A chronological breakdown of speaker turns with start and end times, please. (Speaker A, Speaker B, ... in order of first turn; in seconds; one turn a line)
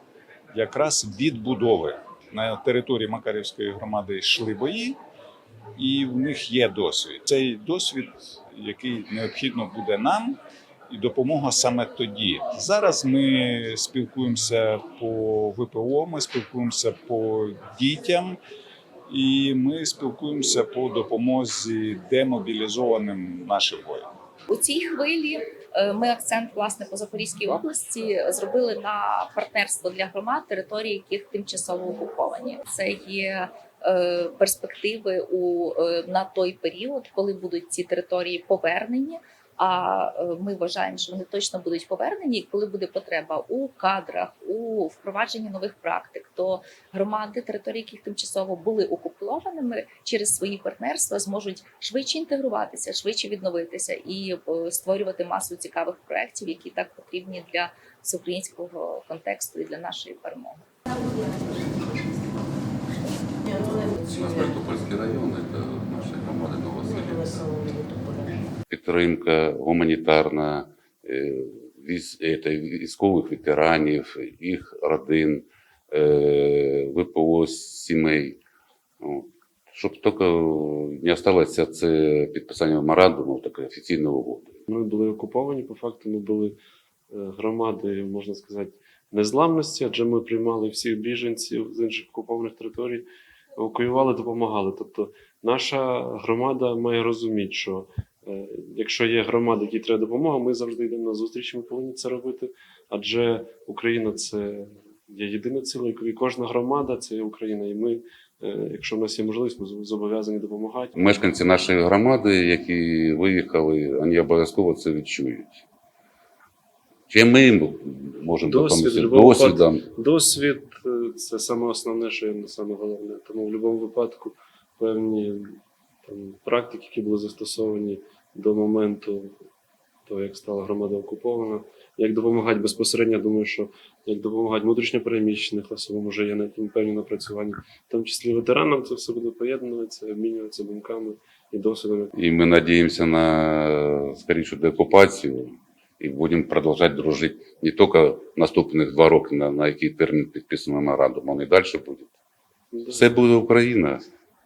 Speaker A: 0.5-5.0
Speaker A: 5.8-10.4
Speaker A: 10.9-18.4
Speaker A: 19.1-24.1
Speaker B: 24.5-60.6
Speaker C: 63.9-67.6
Speaker C: 68.7-78.4
Speaker C: 79.0-84.5
Speaker D: 84.7-86.5
Speaker D: 87.1-111.0
Speaker C: 111.0-115.6
Speaker C: 117.1-119.8
Speaker D: 118.4-129.3
Speaker D: 130.1-142.1
Speaker C: 142.1-152.1
Speaker D: 152.7-153.1
Speaker C: 152.9-154.1